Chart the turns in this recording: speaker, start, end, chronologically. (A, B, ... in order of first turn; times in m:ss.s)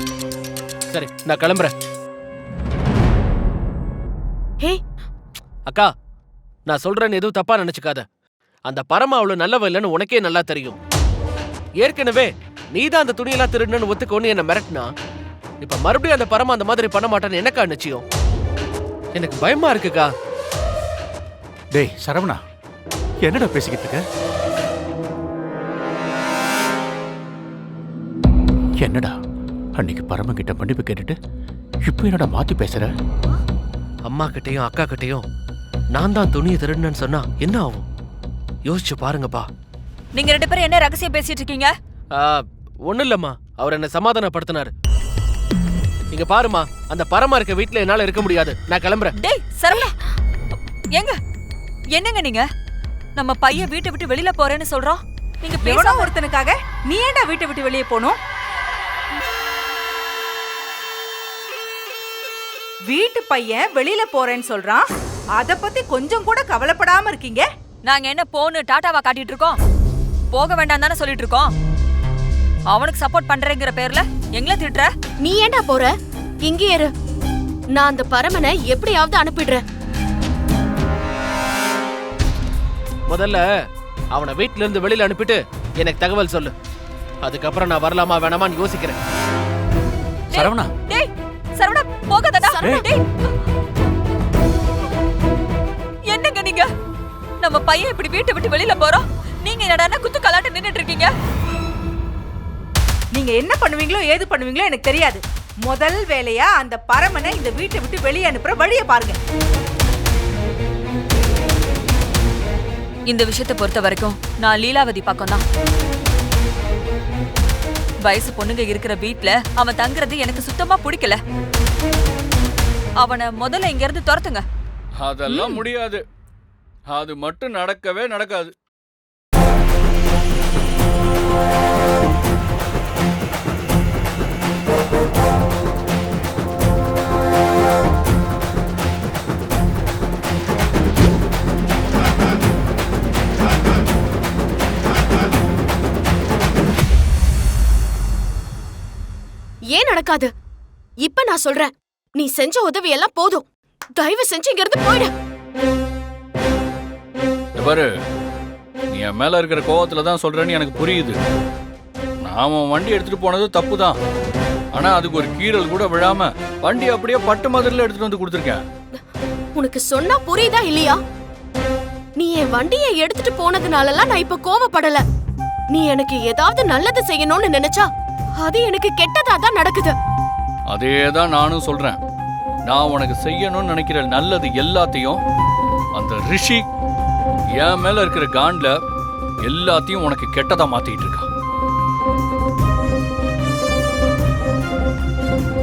0:00.9-0:01.7 A
0:06.7-0:08.0 A
0:08.7-0:10.8 A
0:11.8-0:14.9 A
0:15.6-0:18.0 A
0:19.1-0:20.1 A
0:21.7-0:22.4 B
0:23.2-0:24.0 B
0:28.8-0:29.2 B
0:29.8-0:31.2 B
0:31.8-0:32.9 B
0:34.1-0:35.2 A
0:35.9-0:37.8 A
0:38.7-0:39.5 A
0:40.1-0:41.7 C
0:42.1-0:44.7 A
0:46.1-0:49.1 A
0:49.2-0:49.9 C
0:50.9-0:51.2 C
0:52.0-0:52.4 C
0:53.2-0:56.1 C
0:55.6-0:58.2 D
1:02.9-1:04.9 D
1:05.4-1:07.4 D
1:07.9-1:09.6 C
1:10.3-1:11.5 C
1:12.7-1:14.9 C
1:15.2-1:15.9 E
1:16.4-1:16.9 E
1:17.7-1:19.6 E
1:23.1-1:23.4 A
1:24.1-1:26.5 A
1:27.2-1:29.0 A
1:30.3-1:33.0 C
1:30.3-1:30.7 B
1:32.4-1:32.8 E
1:32.6-1:32.9 B
1:36.1-1:36.7 C
1:37.4-1:41.1 C
1:43.1-1:49.2 D
1:53.1-1:55.4 C
1:58.0-2:01.2 C
2:03.0-2:04.4 C
2:05.0-2:06.0 F
2:06.9-2:08.5 F
2:29.7-2:30.3 E
2:31.0-2:35.1 E
2:37.6-2:37.9 F
2:38.9-2:41.2 F
2:42.2-2:44.0 F
2:44.7-2:48.6 F
2:49.6-2:51.0 E
2:52.2-2:55.0 E
2:55.7-3:00.0 E
3:00.7-3:02.0 F
3:02.7-3:05.2 F
3:06.0-3:06.6 F
3:07.6-3:08.8 F
3:09.4-3:11.3 F